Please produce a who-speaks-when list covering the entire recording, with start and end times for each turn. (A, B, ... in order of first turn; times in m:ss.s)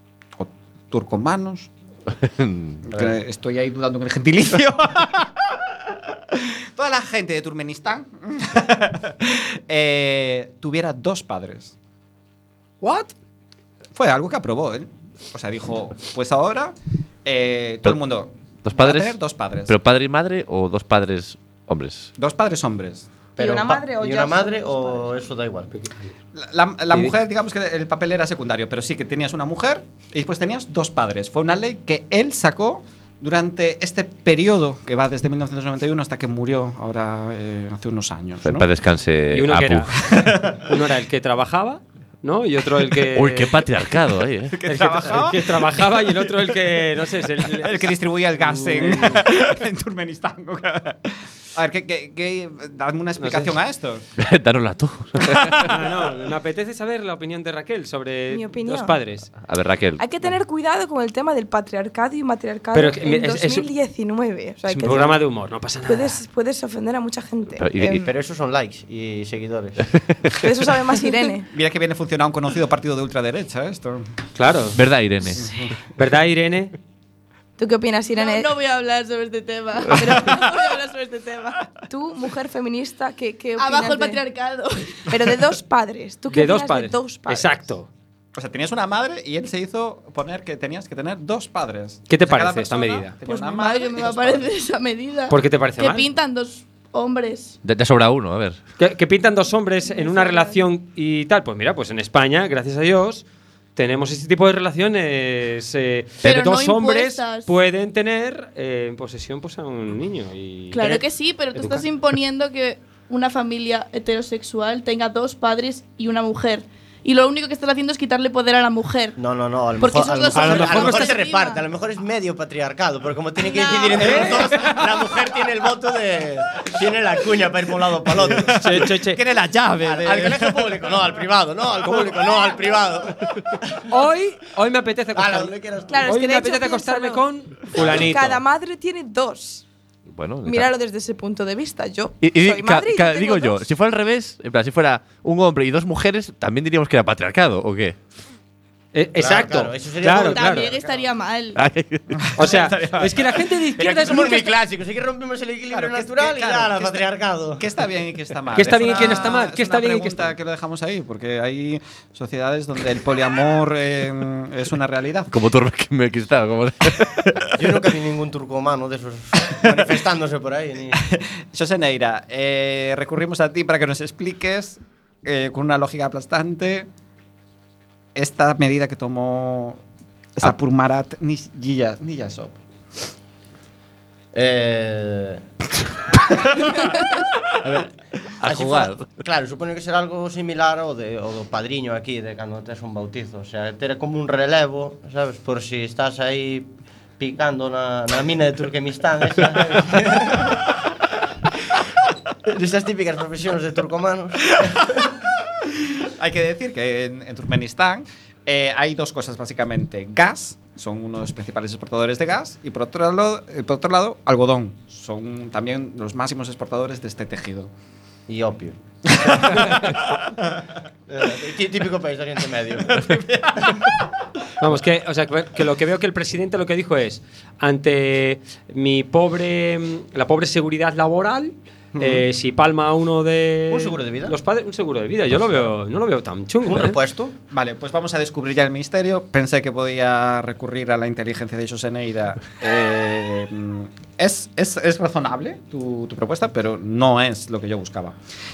0:00.4-0:01.7 A
0:02.2-0:02.8 B
0:02.8-0:11.7 A
0:12.8-0:13.1 C
0:13.9-0:19.8 A
0:18.6-0:19.2 B
0:19.7-0:22.1 B
0:22.2-0:23.1 A
0:23.4-0:25.1 D
0:23.4-0:25.8 E
0:26.3-0:38.7 A
0:38.4-0:40.0 B
0:39.3-0:43.6 C
0:40.0-0:40.6 A
0:43.0-0:44.6 B
0:44.5-0:46.3 A
0:44.6-0:49.2 C
0:47.4-0:54.0 A
0:53.2-0:53.5 C
0:54.2-0:55.7 B
0:55.2-0:55.7 A
0:55.6-0:59.3 C
0:58.3-0:59.0 D
0:59.4-1:00.0 B
1:00.0-1:05.2 D
1:02.7-1:03.7 C
1:04.6-1:06.2 C
1:05.8-1:08.0 D
1:07.6-1:08.1 B
1:07.9-1:09.9 E
1:10.4-1:11.5 D
1:11.5-1:14.1 A
1:14.4-1:14.8 C
1:14.8-1:15.5 B
1:15.3-1:15.8 A
1:16.0-1:16.7 C
1:17.6-1:18.5 D
1:18.1-1:21.7 F
1:20.0-1:20.4 D
1:21.8-1:24.2 D
1:23.6-1:25.2 F
1:25.1-1:27.6 D
1:26.3-1:27.9 C
1:28.3-1:34.5 A
1:32.1-1:33.1 C
1:33.2-1:37.6 F
1:35.3-1:36.1 C
1:37.6-1:38.6 B
1:38.8-1:43.2 C
1:40.0-1:40.5 F
1:43.8-1:51.8 C
1:46.2-1:47.5 F
1:50.7-1:59.2 F
1:59.2-2:08.6 E
1:59.8-2:01.6 F
2:00.3-2:01.1 C
2:03.4-2:04.7 F
2:04.0-2:04.8 C
2:08.5-2:09.2 C
2:08.6-2:11.0 A
2:09.8-2:13.8 E
2:13.9-2:18.4 C
2:15.1-2:16.2 E
2:15.9-2:19.6 D
2:17.8-2:18.1 E
2:20.1-2:20.7 B
2:20.4-2:23.6 D
2:22.2-2:28.0 B
2:28.9-2:30.7 C
2:29.2-2:31.0 E
2:30.2-2:31.6 F
2:31.6-2:32.2 B
2:32.1-2:33.4 A
2:32.4-2:34.5 C
2:33.8-2:37.6 E
2:35.7-2:37.0 A
2:37.6-2:45.4 A
2:38.5-2:40.3 C
2:45.3-2:47.3 B
2:47.0-2:47.4 A
2:47.5-2:51.0 E
2:50.9-2:56.9 A
2:58.1-2:59.8 A
3:00.4-3:02.6 A
3:04.3-3:05.4 E
3:06.6-3:07.1 A
3:07.6-3:07.9 B
3:08.4-3:09.1 B
3:08.4-3:20.7 E
3:22.5-3:25.1 E
3:24.6-3:37.7 A
3:38.3-3:40.0 E
3:39.5-3:40.0 A
3:41.1-3:43.8 E
3:42.8-3:44.2 A
3:44.6-3:57.0 C
3:52.0-3:52.2 E
3:53.7-3:54.4 E
3:56.7-3:57.3 E
3:57.5-4:08.2 A